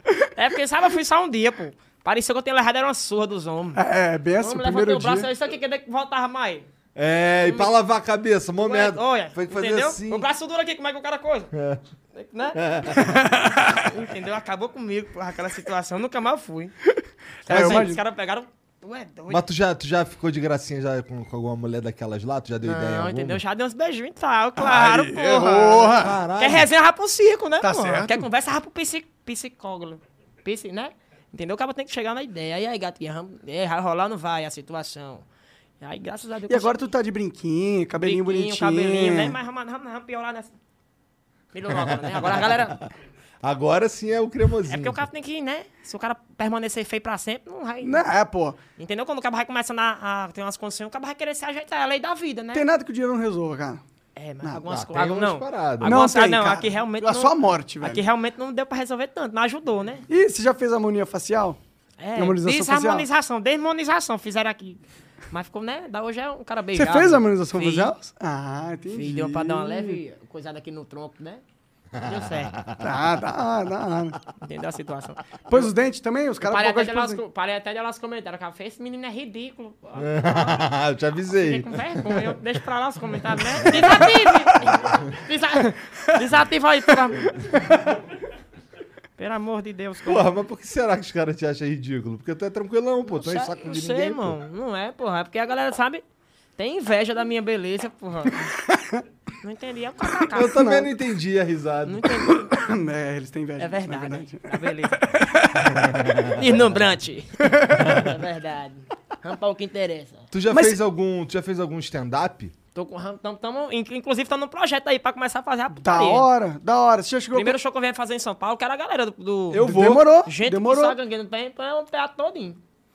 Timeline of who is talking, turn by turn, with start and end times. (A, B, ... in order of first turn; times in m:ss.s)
0:00.3-0:03.8 A
0:03.8-0:05.3 B
0:04.4-0:06.7 A
0:06.9-0:10.3 C
0:07.4-0:07.7 A
0:08.6-0:11.5 A
0:11.5-0:11.8 C
0:12.1-0:16.7 A
0:12.6-0:13.0 C
0:17.4-0:19.4 A
0:17.4-0:18.0 B
0:17.5-0:17.9 C
0:19.3-0:23.4 C
0:22.6-0:35.2 A
0:24.6-0:26.2 B
0:26.0-0:26.7 C
0:27.6-0:28.2 B
0:35.8-0:36.9 A
0:36.5-0:39.4 B
0:38.0-0:40.5 A
0:41.5-0:42.8 A
0:43.4-0:45.0 C
0:44.7-0:48.0 A
0:47.8-0:48.6 B
0:48.8-0:52.6 A
0:52.5-0:53.8 B
0:54.2-1:00.0 A
0:54.7-0:56.1 C
0:55.8-0:58.0 B
1:00.1-1:01.6 B
1:02.0-1:04.8 A
1:02.2-1:03.0 B
1:05.3-1:07.9 A
1:06.7-1:10.0 B
1:08.9-1:11.4 A
1:12.0-1:12.8 C
1:12.0-1:12.5 A
1:12.8-1:14.2 B
1:14.4-1:15.7 A
1:15.5-1:17.2 B
1:16.4-1:20.6 A
1:20.0-1:22.3 C
1:21.3-1:27.5 A
1:23.6-1:24.0 C
1:29.2-1:30.3 A
1:30.0-1:34.4 C
1:33.1-1:36.0 A
1:36.6-1:38.5 A
1:38.7-1:39.0 B
1:39.4-1:40.8 A
1:40.3-1:42.1 C
1:40.4-1:40.9 B
1:41.8-1:42.6 A
1:42.3-1:44.4 B
1:43.6-1:45.2 A
1:45.1-1:45.6 B
1:45.8-1:46.3 C
1:46.2-1:50.3 A
1:50.3-1:52.5 C
1:50.5-1:50.8 B
1:52.7-1:56.3 A
1:55.8-1:57.6 B
1:57.3-2:02.6 A
1:59.5-2:00.1 C
1:59.5-2:01.0 B